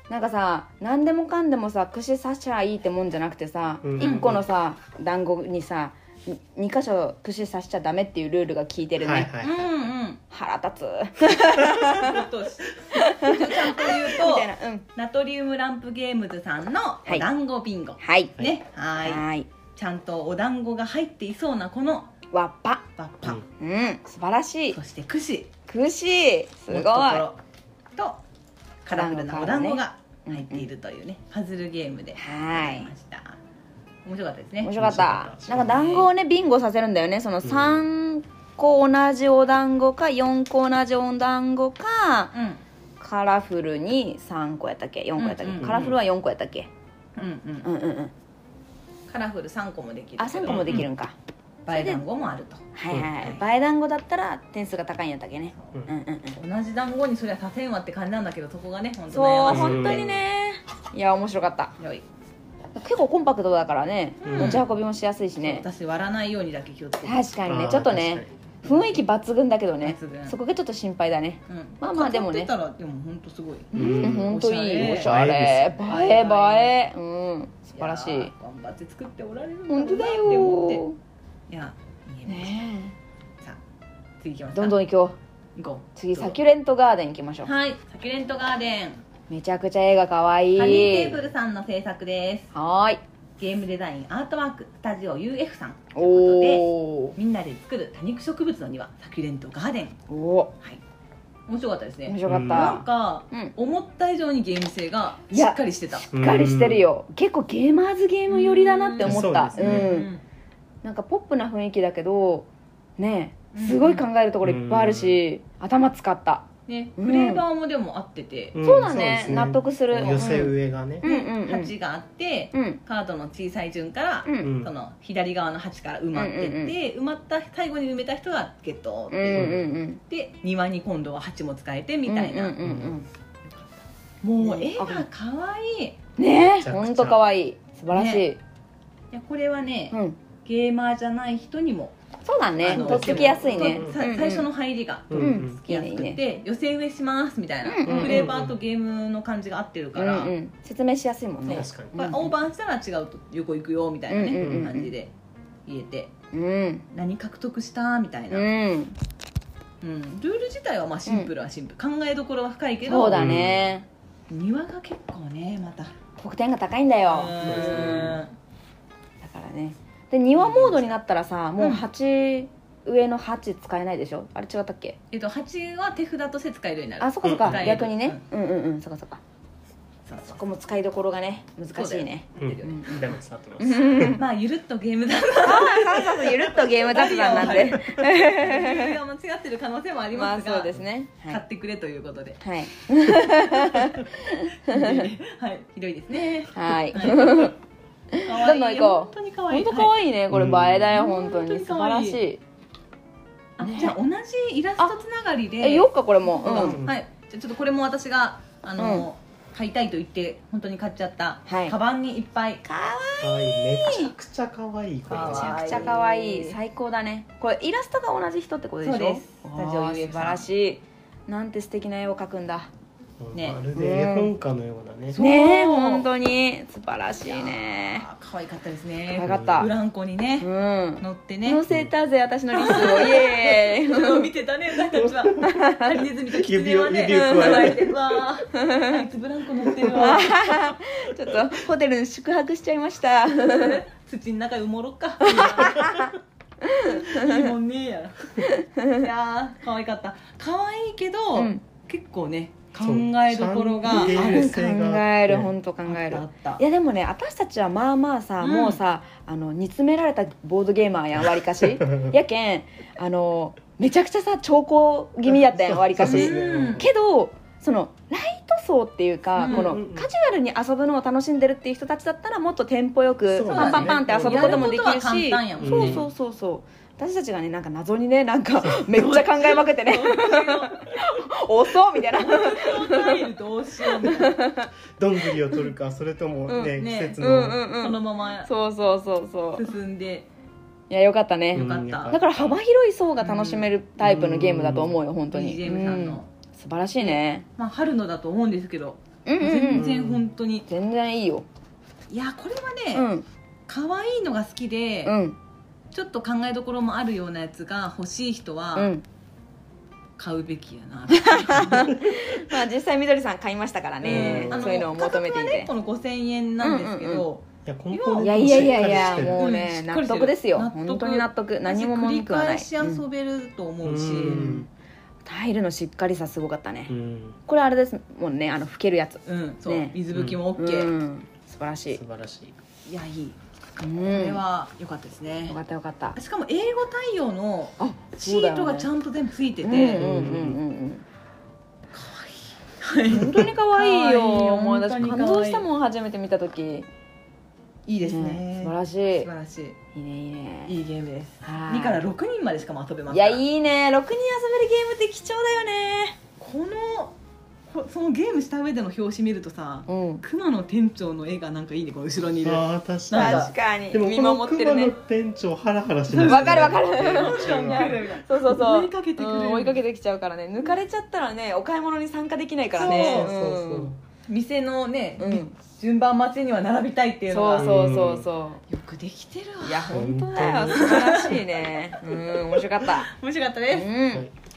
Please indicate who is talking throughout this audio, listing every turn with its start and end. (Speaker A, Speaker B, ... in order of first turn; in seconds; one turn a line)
Speaker A: 0.1-9.3
Speaker B: 3.8-4.4
Speaker C: 4.0-4.3
Speaker B: 9.0-9.6
Speaker C: 9.4-10.2
Speaker A: 10.3-12.2
Speaker C: 11.9-19.2
Speaker A: 12.9-14.8
Speaker A: 18.0-18.3
Speaker A: 19.0-19.5
Speaker C: 19.8-22.1
Speaker A: 22.3-22.8
Speaker C: 23.0-23.4
Speaker A: 23.6-24.8
Speaker C: 24.7-25.5
Speaker A: 25.7-27.2
Speaker C: 26.7-27.4
Speaker C: 27.9-28.2
Speaker C: 28.8-33.4
Speaker A: 28.9-30.7
Speaker A: 32.1-32.9
Speaker C: 34.0-34.7
Speaker A: 34.6-42.3
Speaker B: 34.8-35.8
Speaker C: 35.5-36.1
Speaker B: 37.4-37.8
Speaker C: 42.3-42.6
Speaker A: 43.0-46.7
Speaker C: 45.2-45.9
Speaker B: 45.6-46.0
Speaker C: 47.2-47.7
Speaker A: 47.6-48.1
Speaker C: 49.1-50.8
Speaker A: 50.2-51.1
Speaker B: 50.5-50.8
Speaker C: 51.6-52.7
Speaker A: 51.7-52.0
Speaker A: 52.7-56.4
Speaker B: 52.9-53.2
Speaker C: 56.3-60.0
Speaker A: 59.1-61.7
Speaker B: 59.4-60.2
Speaker C: 61.8-62.0
Speaker A: 62.7-65.7
Speaker C: 64.2-64.7
Speaker B: 64.2-64.6
Speaker C: 65.4-67.3
Speaker A: 67.0-72.5
Speaker B: 67.5-68.3
Speaker C: 69.8-70.4
Speaker C: 71.5-75.1
Speaker B: 73.7-74.4
Speaker A: 73.7-78.3
Speaker B: 74.9-75.8
Speaker C: 75.8-76.7
Speaker C: 77.8-80.8
Speaker A: 79.7-81.0
Speaker C: 81.5-82.6
Speaker A: 82.2-82.9
Speaker C: 84.2-84.8
Speaker A: 84.5-85.2
Speaker C: 85.5-86.3
Speaker A: 86.0-87.5
Speaker C: 87.4-89.0
Speaker A: 89.3-91.2
Speaker C: 90.5-92.5
Speaker A: 92.5-93.0
Speaker C: 93.4-100.0
Speaker A: 95.9-97.2
Speaker A: 100.1-100.5
Speaker C: 101.5-106.1
Speaker A: 102.1-103.5
Speaker B: 102.2-102.8
Speaker A: 105.3-110.1
Speaker B: 106.1-106.9
Speaker C: 108.3-110.2
Speaker B: 109.0-109.9
Speaker A: 110.8-117.4
Speaker C: 113.5-114.0
Speaker B: 114.4-115.2
Speaker C: 116.7-118.6
Speaker B: 118.5-121.0
Speaker A: 118.6-121.7
Speaker C: 120.0-120.4
Speaker C: 121.0-132.6
Speaker A: 122.5-122.8
Speaker A: 124.2-124.5
Speaker B: 124.4-124.7
Speaker A: 126.1-126.7
Speaker A: 129.1-130.0
Speaker B: 129.3-129.8
Speaker A: 132.1-133.1
Speaker B: 132.6-133.0
Speaker C: 133.4-136.0
Speaker A: 134.4-135.1
Speaker A: 136.2-138.4
Speaker B: 136.6-137.2
Speaker C: 137.9-138.2
Speaker C: 139.1-141.9
Speaker A: 139.9-140.2
Speaker A: 142.2-144.5
Speaker C: 142.6-150.3
Speaker B: 142.6-144.0
Speaker B: 145.1-145.6
Speaker A: 145.1-146.2
Speaker A: 147.6-148.3
Speaker B: 147.8-148.5
Speaker A: 149.9-152.3
Speaker C: 151.4-155.1
Speaker B: 151.5-151.9
Speaker A: 154.1-154.9
Speaker B: 154.3-154.7
Speaker C: 155.7-156.1
Speaker A: 156.3-156.8
Speaker C: 156.9-158.5
Speaker A: 158.3-158.9
Speaker C: 159.8-163.4
Speaker A: 162.8-163.8
Speaker B: 163.1-163.7
Speaker C: 164.3-165.9
Speaker A: 166.2-168.2
Speaker C: 167.1-168.3
Speaker B: 167.4-168.2
Speaker A: 169.2-175.0
Speaker C: 170.3-171.0
Speaker C: 171.6-171.8
Speaker C: 175.1-178.2
Speaker A: 177.0-179.2
Speaker B: 177.2-177.8
Speaker C: 180.1-180.4
Speaker A: 180.2-184.2
Speaker C: 181.8-182.8
Speaker B: 182.4-184.2
Speaker C: 184.2-192.4
Speaker A: 185.4-189.0
Speaker A: 190.1-191.4
Speaker A: 192.4-195.1
Speaker C: 193.5-193.9
Speaker C: 194.7-197.5
Speaker A: 196.5-197.5
Speaker A: 198.1-202.4
Speaker C: 198.2-199.9
Speaker B: 200.3-200.9
Speaker C: 200.9-202.2
Speaker C: 203.6-212.6
Speaker A: 203.6-203.9
Speaker A: 205.6-206.8
Speaker B: 206.5-207.0
Speaker A: 208.8-209.1
Speaker A: 211.5-211.7
Speaker A: 212.6-214.1
Speaker B: 213.2-216.0
Speaker C: 215.1-216.6
Speaker A: 215.1-222.7
Speaker C: 218.8-220.5
Speaker B: 223.2-225.2
Speaker C: 223.3-223.6
Speaker A: 223.7-224.3
Speaker C: 225.1-226.1
Speaker A: 225.1-228.0
Speaker C: 227.2-230.5
Speaker A: 229.1-229.7
Speaker B: 229.2-229.7
Speaker A: 230.4-234.3
Speaker C: 231.0-231.6
Speaker C: 232.5-240.3
Speaker B: 234.9-235.7
Speaker A: 235.4-235.9
Speaker B: 236.2-238.2
Speaker A: 237.1-237.7
Speaker A: 238.5-239.0
Speaker B: 239.8-240.1
Speaker A: 239.9-243.8
Speaker C: 243.3-245.9
Speaker A: 245.2-247.5
Speaker C: 246.8-248.4
Speaker A: 248.4-249.0
Speaker C: 248.9-254.5
Speaker A: 251.3-251.6
Speaker B: 252.8-255.5
Speaker A: 253.9-283.2
Speaker C: 255.8-256.6
Speaker C: 258.4-258.8
Speaker B: 261.9-262.1
Speaker B: 265.5-266.9
Speaker C: 266.0-266.9
Speaker C: 269.4-269.7
Speaker B: 269.4-270.1
Speaker B: 273.3-274.8
Speaker C: 273.5-276.1
Speaker B: 275.6-276.1
Speaker C: 278.7-280.9
Speaker C: 282.2-284.4
Speaker A: 283.8-284.7
Speaker B: 285.0-287.6
Speaker A: 285.2-285.6
Speaker A: 286.5-289.7
Speaker C: 286.8-288.5
Speaker C: 289.5-290.3
Speaker A: 290.9-297.4
Speaker B: 291.5-292.6
Speaker C: 291.5-292.1
Speaker C: 293.2-293.7
Speaker B: 294.0-295.0
Speaker C: 295.3-296.3
Speaker C: 297.0-300.6
Speaker A: 299.2-299.9
Speaker B: 299.7-300.2
Speaker A: 300.7-301.4
Speaker C: 302.1-303.1
Speaker A: 302.9-303.2
Speaker C: 303.7-305.1
Speaker A: 305.0-305.4
Speaker C: 305.9-308.9
Speaker A: 308.8-309.0
Speaker C: 310.2-312.0
Speaker A: 311.1-315.7
Speaker B: 314.0-314.7
Speaker C: 314.0-324.5
Speaker A: 316.6-317.2
Speaker B: 317.6-319.4
Speaker A: 318.2-323.0
Speaker B: 323.8-324.7
Speaker A: 324.2-324.7
Speaker A: 325.2-326.9
Speaker B: 326.9-327.4
Speaker A: 327.4-329.9
Speaker C: 329.2-330.9
Speaker B: 330.1-330.4
Speaker A: 330.6-332.0
Speaker B: 331.9-332.6
Speaker C: 332.8-333.4
Speaker A: 333.8-334.4
Speaker C: 333.9-335.6
Speaker A: 335.5-336.2
Speaker C: 336.1-340.0
Speaker A: 337.8-338.9
Speaker A: 339.6-341.0
Speaker B: 339.9-340.6
Speaker C: 341.9-345.6
Speaker A: 343.1-346.9
Speaker C: 347.9-349.8
Speaker A: 348.0-349.3
Speaker A: 349.9-350.7
Speaker C: 350.6-353.4
Speaker A: 351.4-352.0
Speaker A: 353.1-356.2
Speaker C: 356.4-357.1
Speaker C: 357.7-363.5
Speaker A: 359.9-360.2
Speaker B: 362.4-368.1
Speaker A: 363.1-364.9
Speaker C: 366.1-369.8
Speaker A: 366.2-373.9
Speaker C: 372.8-373.3
Speaker B: 372.8-374.0
Speaker C: 374.3-377.7
Speaker A: 375.2-375.5
Speaker A: 377.3-378.6
Speaker B: 377.6-378.3
Speaker C: 378.7-383.9
Speaker A: 379.6-383.1
Speaker B: 379.9-381.1
Speaker A: 383.7-384.3